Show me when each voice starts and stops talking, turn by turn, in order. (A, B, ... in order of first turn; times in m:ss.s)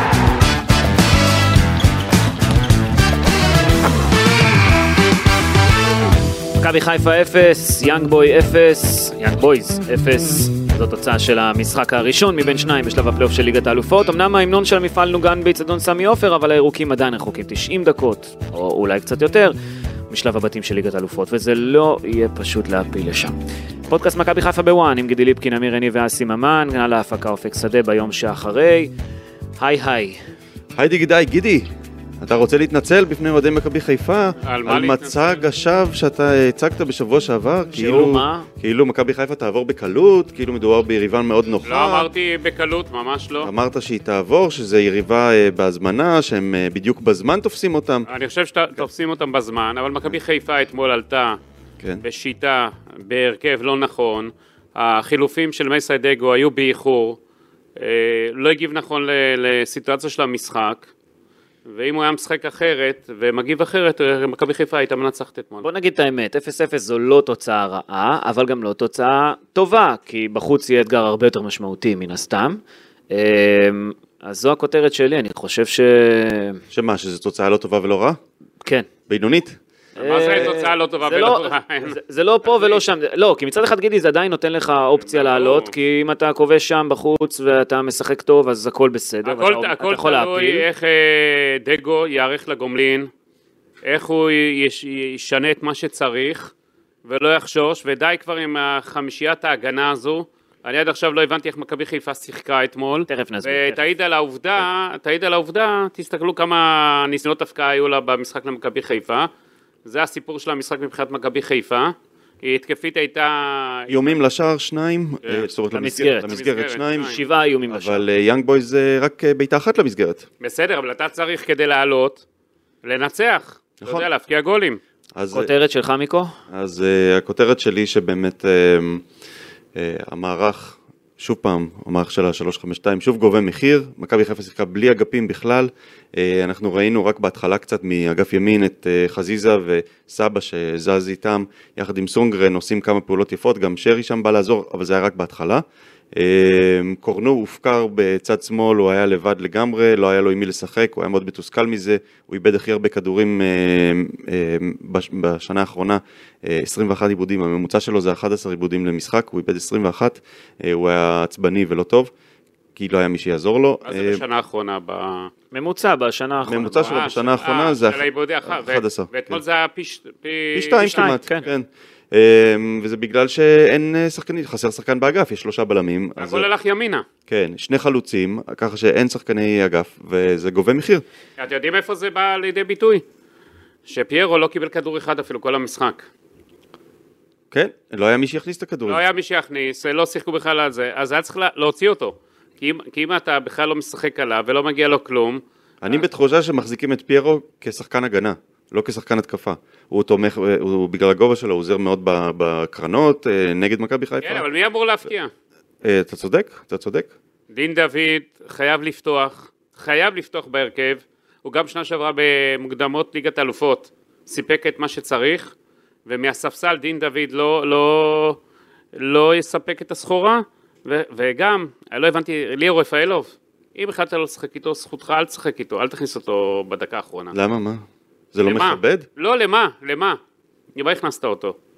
0:06.6-0:19.6 A
0:20.1-0:23.3 A
0:23.9-0:28.9 A
0:29.6-0:30.2 A
0:30.7-0:31.7 B
0:32.2-0:42.1 B
0:34.4-0:35.4 C
0:37.7-0:38.5 A
0:41.7-0:43.5 C
0:43.4-0:48.1 B
0:48.1-0:51.4 C
0:52.0-0:57.2 C
0:57.8-1:00.9 C
1:01.7-1:05.6 C
1:05.6-1:16.6 A
1:16.7-1:18.2 B
1:19.1-1:19.6 B
1:20.0-1:30.7 A
1:20.0-1:22.0 C
1:22.5-1:22.8 C
1:25.0-1:25.7 C
1:29.2-1:33.1 C
1:33.8-1:36.5 C
1:37.0-1:49.3 C
1:43.1-1:43.8 A
1:49.8-1:54.2 C
1:53.9-1:57.2 B
1:55.7-1:56.4 A
1:56.2-1:57.2 C
1:57.0-1:58.1 A
1:57.7-2:00.2 B
2:00.4-2:02.2 C
2:02.8-2:04.8 C
2:03.8-2:04.1 B
2:05.2-2:05.5 B
2:05.3-2:06.3 A
2:06.5-2:09.0 B
2:09.8-2:25.6 B
2:26.2-2:42.1 B
2:42.8-2:44.2 B
2:43.8-2:45.3 C
2:45.5-2:47.3 A
2:46.5-2:49.4 B
2:46.8-2:51.2 C
2:50.5-2:56.5 B
2:50.9-2:51.4 A
2:56.2-2:57.0 C
2:57.3-3:01.0 B
3:01.4-3:03.0 C
3:03.9-3:06.1 C
3:07.5-3:09.0 B
3:08.9-3:16.0 C
3:15.8-3:24.4 B
3:24.2-3:25.3 C
3:25.8-3:27.1 B
3:27.5-3:35.5 C
3:36.1-3:38.4 C
3:39.0-3:47.4 C
3:47.3-3:49.1 B
3:48.4-3:50.2 C
3:50.8-3:51.6 C